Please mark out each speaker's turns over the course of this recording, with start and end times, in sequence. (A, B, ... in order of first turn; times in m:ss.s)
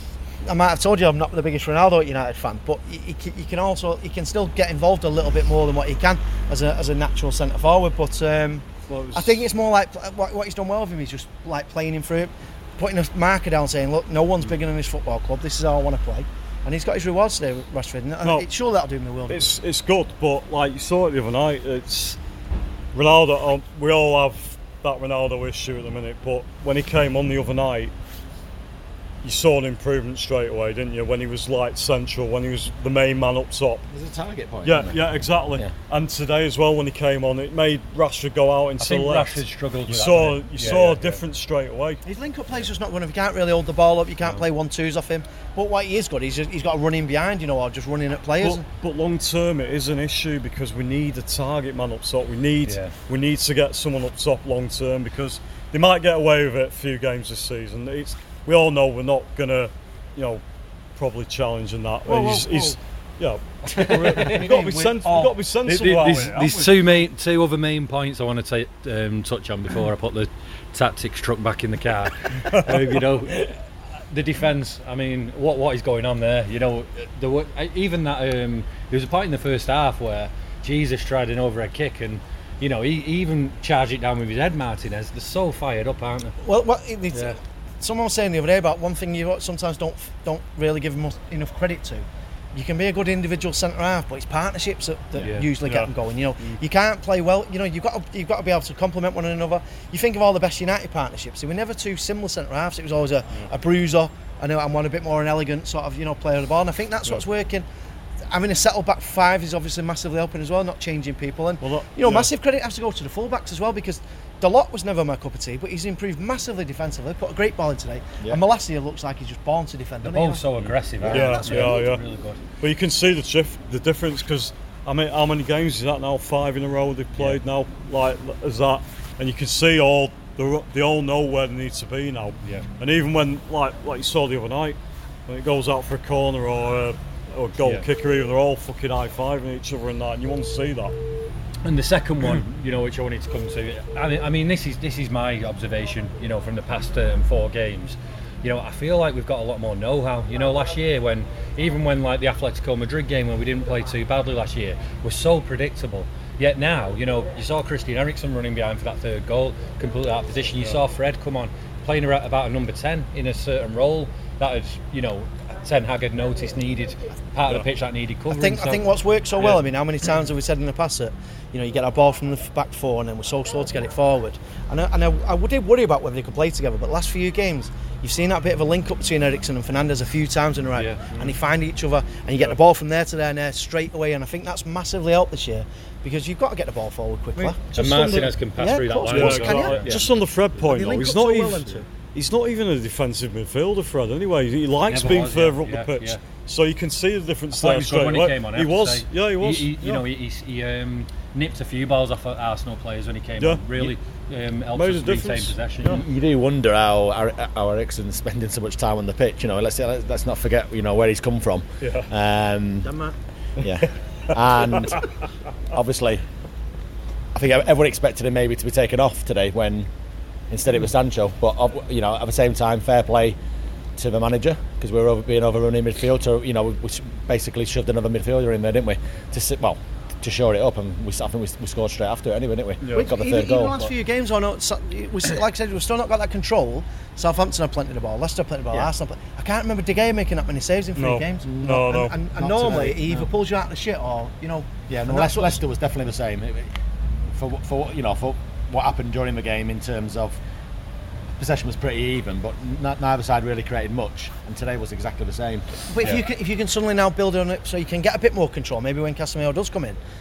0:00.4-0:19.6 A
0:08.9-0:09.4 B
0:18.2-0:18.5 B
0:19.3-0:22.2 B
0:22.9-0:27.9 B
0:29.2-0:33.8 B
0:33.9-0:35.7 C
0:34.6-0:42.0 B
0:38.8-0:41.2 D
0:42.0-0:48.7 A
0:48.4-1:00.4 B
0:52.6-0:52.9 D
1:01.0-1:06.9 B
1:02.1-1:02.8 D
1:03.7-1:13.5 D
1:04.3-1:05.2 A
1:14.1-1:26.4 D
1:26.4-1:47.6 A
1:35.2-1:35.5 D
1:35.6-1:35.9 B
1:48.3-2:00.5 A
1:51.6-1:52.3 B
2:00.0-2:02.4 D
2:00.6-2:01.7 C
2:01.1-2:02.0 B
2:01.1-2:01.9 A
2:02.6-2:21.0 B
2:17.6-2:17.9 D
2:21.6-2:48.8 D
2:48.3-3:11.9 A
3:00.7-3:01.2 D
3:07.4-3:08.3 B
3:07.7-3:10.0 D
3:09.0-3:20.1 B
3:14.9-3:16.2 D
3:17.5-3:26.0 D
3:23.4-3:24.0 B
3:24.7-3:26.0 B
3:25.8-3:33.0 C
3:33.6-3:35.0 C
3:35.7-3:36.2 C
3:37.4-3:39.9 C
3:40.5-3:43.4 C
3:44.0-3:53.9 C
3:52.8-3:53.1 B
3:52.9-4:05.6 A
4:01.0-4:02.2 B
4:01.4-4:03.3 C
4:04.9-4:06.7 C
4:07.3-4:10.4 C
4:11.4-4:15.7 C
4:15.9-4:20.0 A